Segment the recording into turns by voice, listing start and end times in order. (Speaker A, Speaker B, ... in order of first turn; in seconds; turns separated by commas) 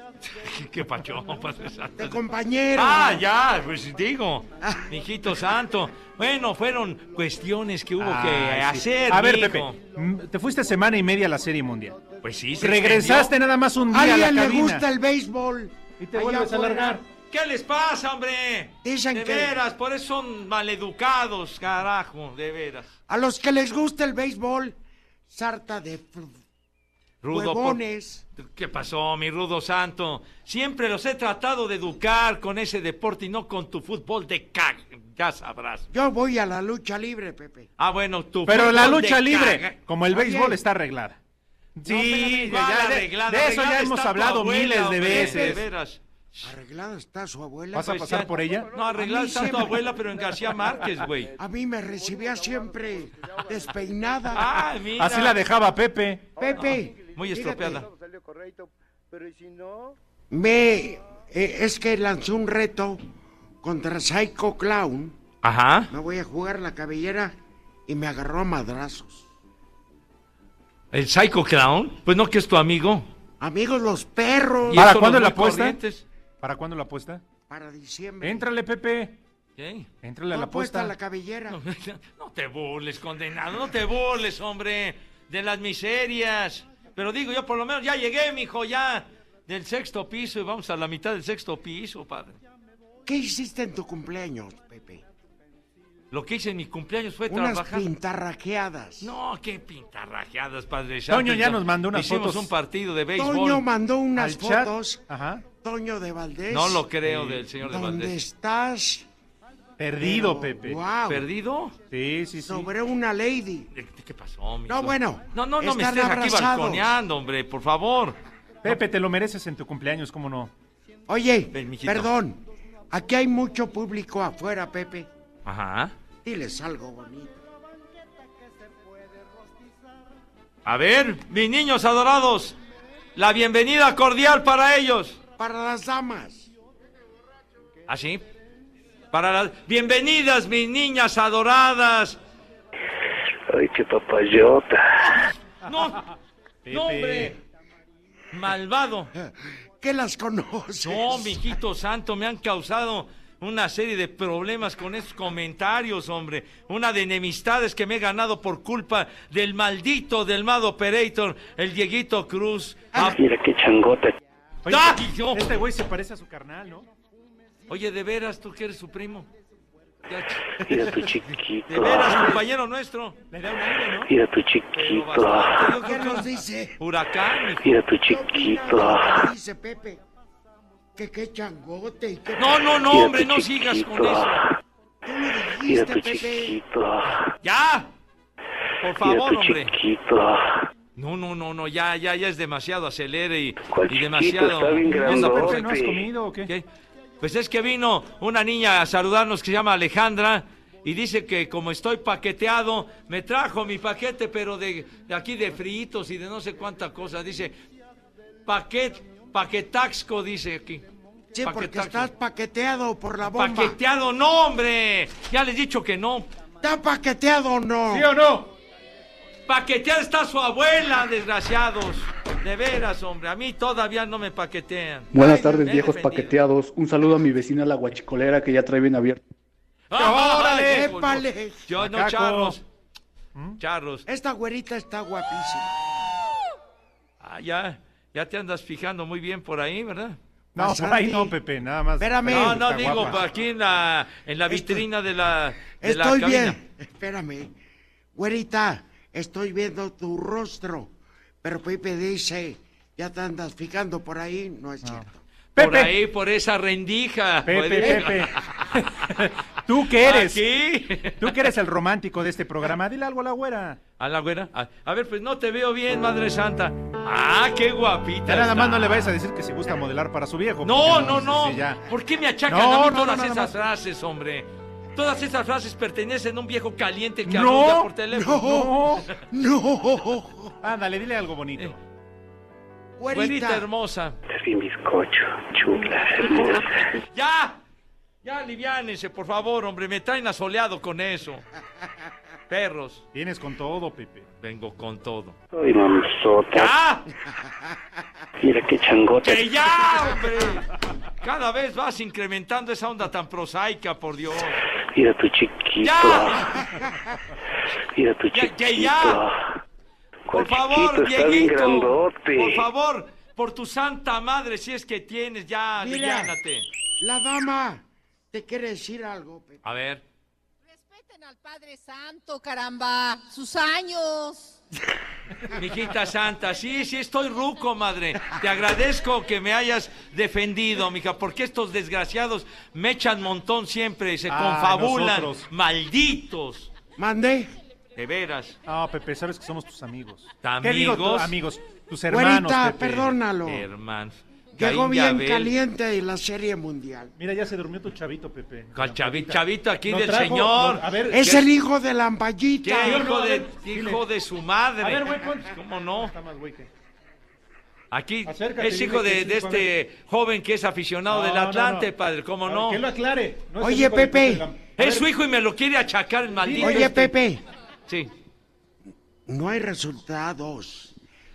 Speaker A: 0.3-2.2, Speaker B: 2.0-3.2, Speaker A: 2.8-9.8, Speaker B: 4.6-4.9, Speaker C: 8.0-12.0, Speaker A: 12.2-13.3, Speaker C: 12.6-14.8, Speaker B: 13.9-17.0, Speaker C: 16.0-17.0, Speaker A: 17.3-22.9, Speaker B: 18.8-19.6, Speaker B: 23.1-24.8, Speaker B: 25.3-26.3, Speaker A: 27.2-27.8, Speaker B: 27.3-28.2, Speaker A: 28.4-35.9, Speaker B: 35.9-37.7, Speaker A: 37.8-39.8, Speaker C: 38.5-41.2, Speaker B: 40.1-40.6, Speaker C: 41.8-45.6, Speaker A: 41.9-46.5, Speaker B: 45.1-45.6, Speaker B: 46.4-48.3, Speaker C: 47.8-48.7, Speaker A: 47.9-51.3, Speaker B: 49.0-49.9, Speaker B: 51.4-54.7, Speaker D: 52.0-53.5, Speaker A: 54.3-55.4, Speaker C: 55.0-56.3, Speaker D: 56.4-60.0, Speaker B: 56.4-57.8, Speaker A: 56.6-57.8, Speaker B: 60.3-63.0, Speaker B: 63.6-65.2, Speaker A: 65.4-65.9, Speaker B: 65.9-67.3, Speaker B: 67.9-69.2, Speaker A: 70.9-73.1, Speaker B: 73.4-74.9, Speaker A: 74.7-76.0, Speaker C: 74.7-75.8, Speaker C: 76.4-77.2, Speaker B: 77.5-78.5, Speaker C: 78.2-79.2, Speaker A: 79.6-79.9, Speaker C: 80.0-80.9, Speaker B: 80.3-81.6, Speaker A: 81.5-92.4, Speaker B: 93.1-95.0, Speaker A: 96.1-97.9, Speaker B: 97.3-99.1, Speaker A: 99.0-103.6, Speaker C: 101.1-102.5, Speaker B: 103.2-105.0, Speaker C: 104.2-105.4, Speaker B: 105.6-106.8, Speaker A: 106.5-108.2, Speaker C: 107.1-107.4, Speaker B: 107.6-109.1, Speaker C: 109.8-110.8, Speaker B: 110.0-111.3, Speaker A: 111.1-111.7, Speaker C: 111.9-112.7, Speaker B: 112.4-113.7, Speaker A: 113.7-118.7, Speaker B: 114.7-117.0, Speaker C: 118.6-120.5, Speaker B: 121.1-125.1, Speaker A: 121.5-122.1, Speaker A: 125.5-125.9, Speaker B: 126.2-127.4, Speaker A: 130.7-132.6, Speaker A: 133.2-135.2, Speaker B: 135.4-136.5, Speaker A: 137.9-138.2, Speaker A: 139.1-142.2, Speaker E: 143.5-145.1, Speaker A: 145.2-146.0, Speaker C: 146.7-147.4, Speaker A: 146.7-147.4, Speaker A: 148.3-149.1, Speaker B: 149.8-151.5, Speaker A: 150.8-163.2, Speaker E: 163.0-164.1, Speaker C: 164.7-166.9, Speaker A: 164.7-165.4, Speaker A: 167.7-169.3, Speaker A: 170.1-170.6, Speaker E: 170.6-172.4, Speaker C: 170.7-171.1, Speaker A: 171.7-173.2, Speaker C: 172.1-172.4, Speaker C: 173.3-174.1, Speaker E: 174.1-175.7, Speaker A: 174.7-176.3, Speaker B: 175.8-176.8, Speaker A: 176.8-177.8, Speaker E: 177.6-179.2, Speaker B: 178.1-180.0, Speaker B: 181.0-182.8, Speaker A: 182.4-184.4, Speaker E: 182.9-184.5, Speaker B: 185.1-186.6, Speaker E: 185.7-187.3, Speaker A: 187.4-187.9, Speaker A: 188.8-189.7, Speaker E: 189.0-190.6, Speaker A: 191.0-195.8, Speaker E: 193.6-196.1, Speaker C: 194.9-196.5, Speaker A: 197.2-207.6, Speaker A: 208.5-210.8, Speaker B: 211.3-213.8, Speaker A: 211.4-212.1, Speaker A: 213.3-216.3, Speaker B: 216.6-218.1, Speaker C: 217.9-218.5, Speaker A: 219.5-226.3, Speaker F: 225.1-229.2, Speaker A: 229.9-232.6, Speaker C: 230.0-230.9, Speaker B: 230.2-231.6, Speaker C: 231.8-232.6, Speaker A: 233.6-234.1, Speaker B: 234.1-235.7, Speaker A: 237.2-240.2, Speaker B: 240.6-241.3, Speaker C: 240.6-243.2, Speaker B: 242.0-243.2, Speaker A: 242.3-246.6, Speaker B: 244.5-244.8, Speaker B: 245.8-247.5, Speaker B: 248.2-250.9, Speaker B: 251.4-255.2, Speaker C: 255.6-255.9, Speaker A: 255.6-258.4, Speaker C: 257.5-260.4, Speaker A: 260.0-261.3, Speaker C: 261.2-263.8, Speaker A: 264.0-269.1, Speaker C: 268.3-271.8, Speaker A: 270.6-278.5, Speaker C: 272.5-273.6, Speaker C: 277.3-277.9, Speaker B: 278.1-278.8, Speaker C: 278.4-279.1, Speaker B: 279.3-280.5, Speaker C: 280.6-281.8, Speaker B: 283.0-283.7, Speaker A: 283.1-284.2, Speaker E: 284.3-286.8, Speaker A: 286.3-287.6, Speaker A: 288.2-291.4, Speaker A: 292.5-293.0, Speaker C: 293.1-294.3, Speaker A: 294.4-295.4, Speaker E: 295.5-296.7, Speaker A: 296.5-297.0, Speaker E: 298.4-299.6, Speaker A: 299.2-300.7, Speaker A: 301.2-304.6, Speaker E: 304.9-306.4, Speaker A: 305.8-306.6, Speaker E: 307.9-309.4, Speaker A: 308.3-309.2, Speaker E: 310.3-312.7, Speaker A: 310.3-316.7, Speaker B: 315.8-316.4, Speaker B: 317.0-319.6, Speaker A: 319.6-320.0, Speaker G: 320.7-324.6, Speaker A: 325.6-336.7, Speaker C: 334.3-335.5, Speaker B: 337.0-337.5, Speaker A: 338.0-338.6, Speaker C: 338.7-343.1, Speaker A: 340.4-341.3, Speaker B: 342.1-343.7, Speaker A: 343.5-345.5, Speaker B: 344.6-347.1, Speaker C: 347.2-351.3, Speaker A: 348.8-351.4, Speaker B: 351.1-353.1, Speaker A: 352.6-356.1, Speaker C: 352.8-354.0, Speaker C: 354.8-356.7, Speaker A: 357.9-362.8, Speaker C: 358.3-359.7, Speaker C: 361.1-361.9, Speaker C: 362.4-365.1, Speaker B: 363.6-364.4, Speaker A: 364.8-367.1, Speaker C: 366.4-366.9, Speaker B: 366.6-367.4, Speaker B: 369.3-370.9